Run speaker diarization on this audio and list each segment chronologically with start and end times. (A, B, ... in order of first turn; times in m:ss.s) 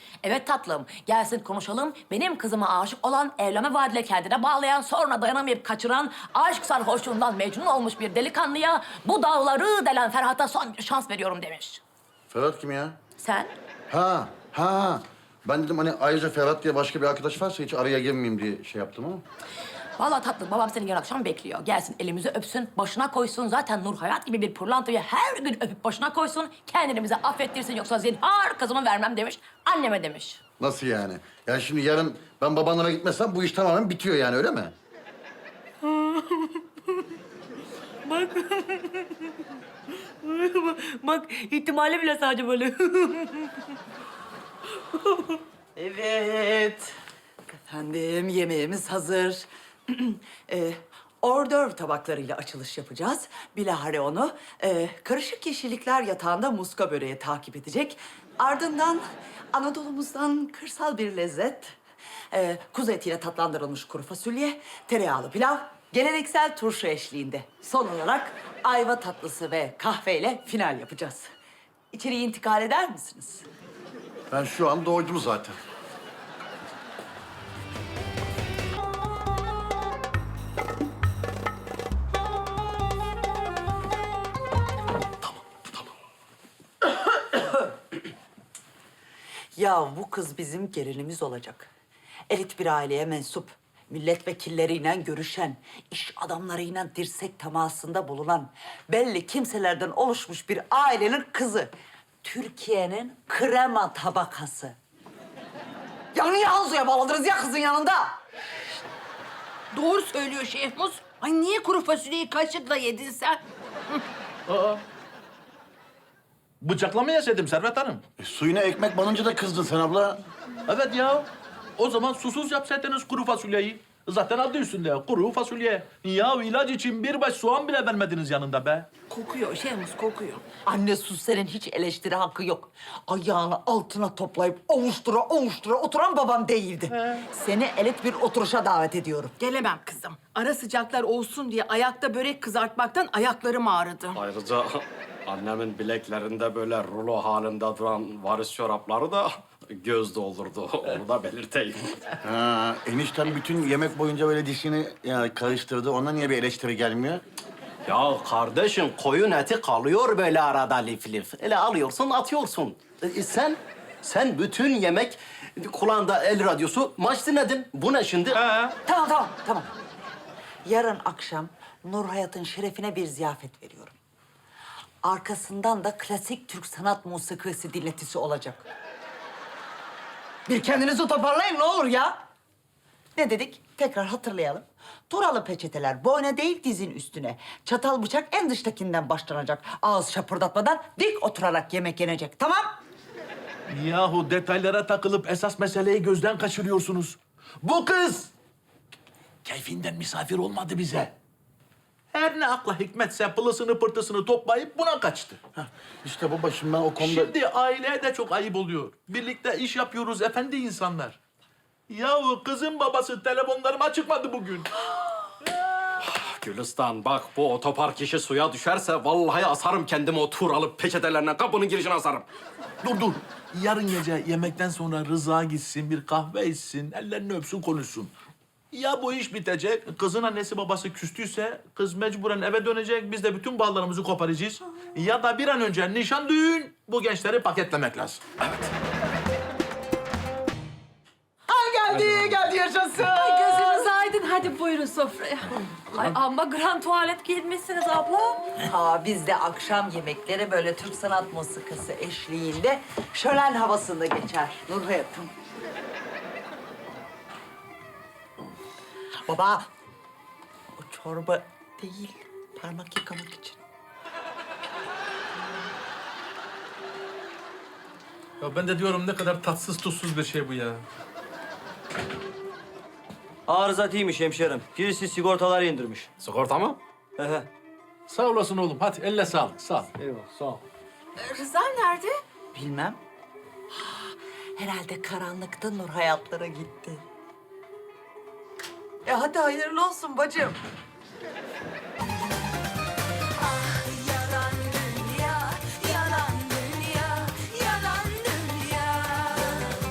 0:00.2-0:11.8 A
0:12.3-0:13.0 B
0:13.2-0:13.5 A
0:13.9-0:19.2 B
0:20.0-0:30.4 A
0:30.6-0:34.7 B
0:40.8-0:43.0 A
0:45.8-0:46.9 C
0:47.5-1:01.8 C
1:02.3-1:11.3 C
1:11.9-1:13.5 C
1:14.3-1:15.6 B
1:29.6-1:31.7 C
1:32.3-1:41.7 C
1:42.2-1:44.8 C
1:46.1-1:48.2 C
1:49.7-1:53.4 D
1:54.5-1:54.8 E
1:56.6-1:58.0 E
1:58.2-2:00.2 B
2:00.7-2:08.9 E
2:09.1-2:10.4 D
2:10.6-2:19.3 C
2:19.4-2:24.1 D
2:24.1-2:32.2 F
2:32.2-2:37.2 B
2:37.8-2:48.4 F
2:48.3-2:48.7 E
2:48.8-2:49.7 C
2:50.6-2:53.9 C
2:55.0-2:58.6 C
3:00.4-3:02.2 C
3:03.2-3:12.7 C
3:13.7-3:18.3 E
3:19.4-3:21.1 E
3:22.1-3:25.4 E
3:25.5-3:27.3 B
3:27.0-3:31.2 E
3:31.9-3:34.7 E
3:36.0-3:42.2 F
3:42.8-3:48.1 E
3:48.7-3:58.2 E
4:01.5-4:03.9 C
4:04.3-4:05.2 D
4:08.6-4:15.3 C
4:19.3-4:19.7 C
4:20.8-4:23.6 C
4:28.4-4:30.8 E
4:33.5-4:36.1 G
4:36.2-4:36.8 F
4:37.2-4:37.5 G
4:38.1-4:39.9 E
4:40.0-4:40.3 G
4:41.2-4:42.1 D
4:42.5-4:43.0 C
4:43.8-4:47.0 C
4:49.0-4:50.6 C
4:53.4-4:59.7 C